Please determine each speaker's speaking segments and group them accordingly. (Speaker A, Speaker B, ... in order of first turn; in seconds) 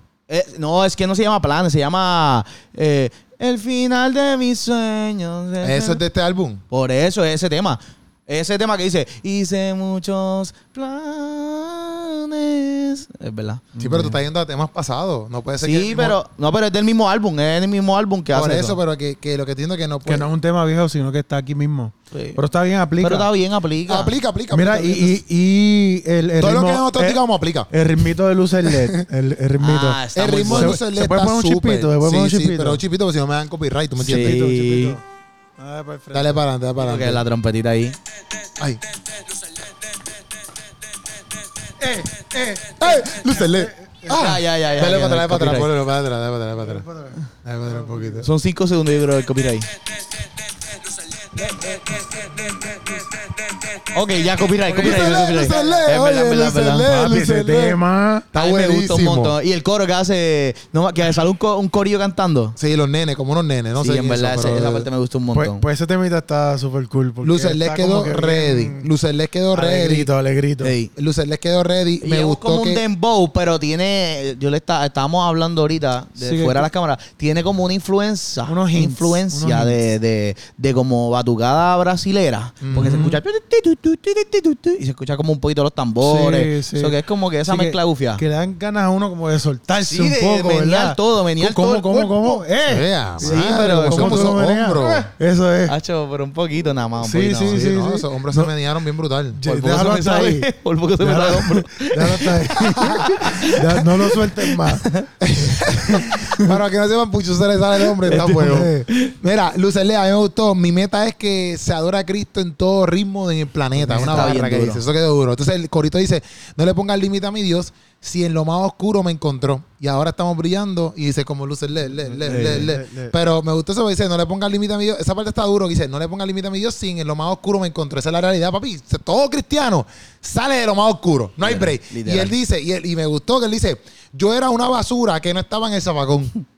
Speaker A: 0.3-6.0, 6.7-13.7, 15.6-18.8, 22.1-22.4, 23.0-24.1, 29.6-30.8, 34.0-35.0, 36.8-38.0, 44.1-45.7, 48.2-49.7, 53.9-56.9, 58.3-62.6, 63.8-65.6, 70.6-70.9, 72.0-88.2, 89.8-92.4, 93.2-94.9, 95.7-97.6, 99.4-105.1, 108.1-109.2, 113.9-114.8, 122.3-122.7, 131.4-132.3
Speaker B: 5.6-6.6, 13.8-16.2, 18.3-20.2, 23.9-25.2, 26.4-27.7, 28.6-29.1, 30.1-34.4, 36.1-37.2, 42.8-46.8, 47.4-48.3, 54.7-57.8, 58.3-59.4, 62.6-64.9, 67.2-70.1, 71.0-72.8, 82.6-83.1, 92.7-95.0, 97.4-99.4, 105.2-136.4
Speaker C: 13.8-14.2, 20.1-23.3, 24.5-32.8, 34.1-35.0, 35.6-36.4, 41.8-44.1, 46.6-48.1, 51.8-52.5, 56.9-58.2, 65.3-68.9, 69.5-70.7, 76.2-76.7, 78.5-79.7, 82.7-83.2, 86.0-87.0, 87.5-95.8, 97.0-98.5, 99.3-100.5, 101.0-104.9, 105.8-106.5, 108.1-108.8, 113.8-114.4, 122.0-123.1